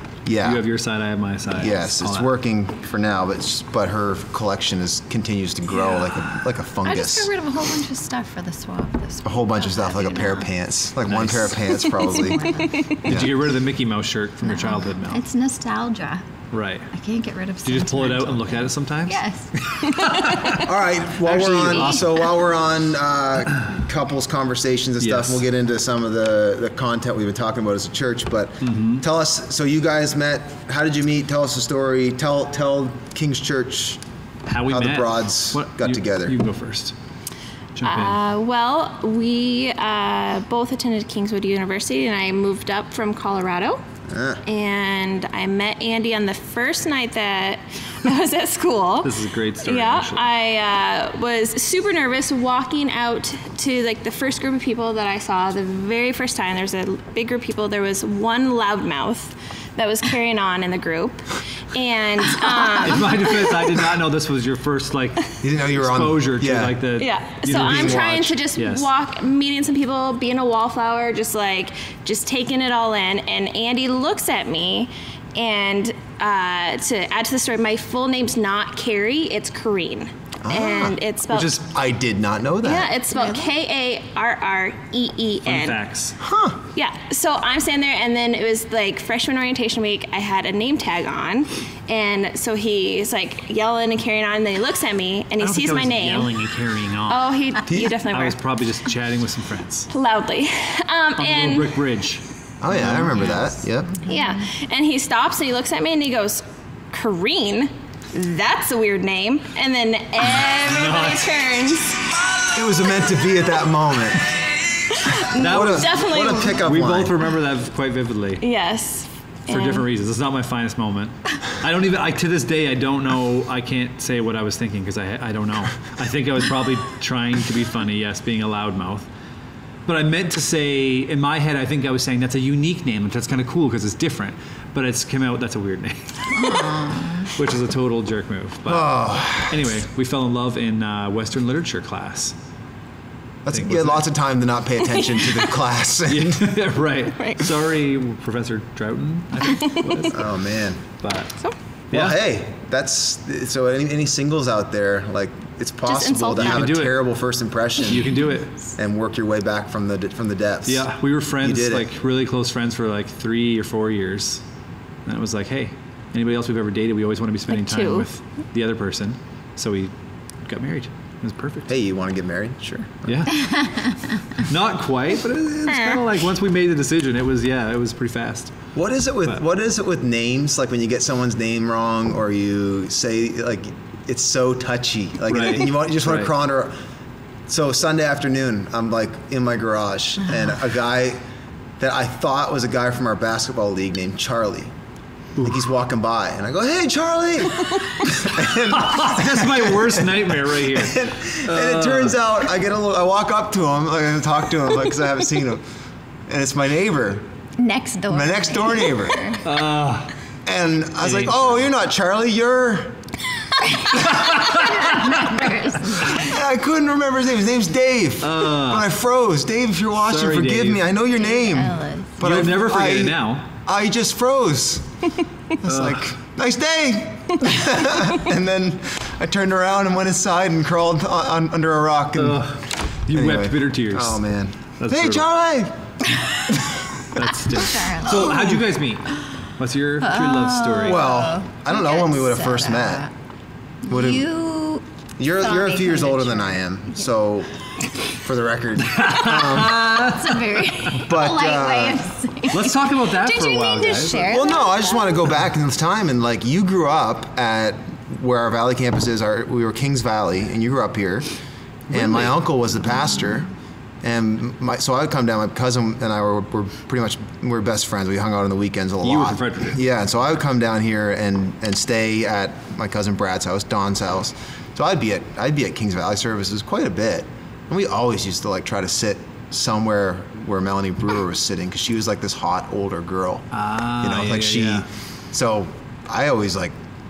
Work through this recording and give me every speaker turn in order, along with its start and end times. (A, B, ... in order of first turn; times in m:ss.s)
0:00.3-0:00.7 A
0:00.4-0:02.3 B
0:01.5-0:07.3 A
0:06.8-0:10.5 C
0:09.2-0:13.4 A
0:11.1-0:11.8 B
0:11.9-0:12.9 C
0:13.0-0:15.2 B
0:14.4-0:16.2 C
0:16.5-0:16.9 B
0:16.9-0:19.5 C
0:17.6-0:20.7 B
0:20.5-0:34.0 A
0:21.2-0:22.3 B
0:21.5-0:22.0 C
0:25.0-0:25.4 B
0:28.6-0:29.0 B
0:34.5-0:36.9 B
0:34.7-0:36.4 A
0:37.8-0:38.2 B
0:37.8-0:43.8 D
0:44.1-0:44.4 A
0:44.4-1:03.7 D
0:49.0-0:50.3 B
1:02.7-1:08.9 B
1:05.4-1:06.8 A
1:07.0-1:21.6 D
1:07.5-1:08.4 A
1:20.4-1:21.0 A
1:21.3-1:21.6 B
1:21.6-1:22.9 A
1:22.6-1:25.8 D
1:23.2-1:23.4 C
1:25.4-1:26.2 B
1:26.2-1:26.6 A
1:26.8-1:36.4 D
1:35.4-1:37.3 B
1:37.1-1:38.4 D
1:37.7-1:38.0 A
1:38.1-1:39.9 B
1:39.9-1:41.8 D
1:41.2-1:43.4 B
1:42.6-1:44.0 A
1:43.9-1:44.5 C
1:44.0-1:52.0 D
1:50.6-1:51.4 B
1:52.5-1:54.3 A
1:55.0-1:56.6 D
1:55.3-1:57.2 A
1:55.3-1:58.4 B
1:58.4-1:59.9 D
1:59.5-2:09.1 B
2:09.9-2:19.0 B
2:16.4-2:17.3 C
2:18.7-2:19.7 A
2:19.5-2:22.4 B
2:23.4-2:26.6 A
2:23.5-2:24.0 B
2:25.0-2:25.3 D
2:26.1-2:30.3 B
2:27.2-2:27.4 D
2:29.5-2:30.1 D
2:30.1-2:30.8 A
2:31.0-2:31.4 B
2:31.9-2:32.2 B
2:31.9-2:38.2 A
2:35.8-2:36.8 D
2:36.4-2:37.0 B
2:37.8-2:38.6 B
2:38.8-2:41.9 A
2:40.7-2:44.4 B
2:45.1-2:49.9 B
2:47.5-2:48.1 D
2:50.4-2:51.7 B
2:51.7-2:53.3 A
2:53.0-2:58.5 B
2:53.5-2:53.9 C
2:55.7-2:56.0 D
2:58.8-3:06.7 A
3:05.3-3:06.3 B
3:07.5-3:11.2 A
3:11.8-3:14.7 A
3:15.4-3:25.6 A
3:18.7-3:22.2 B
3:26.3-3:27.3 A
3:27.6-3:29.4 C
3:28.1-3:29.4 A
3:29.4-3:30.1 B
3:30.5-3:33.0 A
3:31.0-3:31.7 B
3:33.9-3:35.5 B
3:34.5-3:36.4 C
3:36.1-3:44.9 A
3:38.2-3:38.9 B
3:40.0-3:40.8 B
3:41.1-3:42.2 C
3:42.2-3:43.5 B
3:45.6-3:52.4 A
3:45.6-3:46.1 B
3:52.2-3:54.2 B
3:53.1-3:55.8 A
3:54.8-3:55.3 B
3:57.1-4:01.1 B
3:57.6-3:58.4 C
3:58.2-3:58.6 A
4:00.0-4:03.1 C
4:00.8-4:03.1 A
4:03.8-4:07.0 C
4:03.9-4:04.3 A
4:05.2-4:07.5 A
4:08.1-4:10.1 A
4:08.9-4:11.0 B
4:09.9-4:15.1 C
4:11.0-4:12.1 A
4:12.5-4:14.3 B
4:14.2-4:21.3 A
4:21.9-4:22.4 B
4:21.9-4:23.5 A
4:24.0-4:43.5 A
4:29.0-4:29.8 B
4:43.5-4:44.9 B
4:44.0-4:46.8 A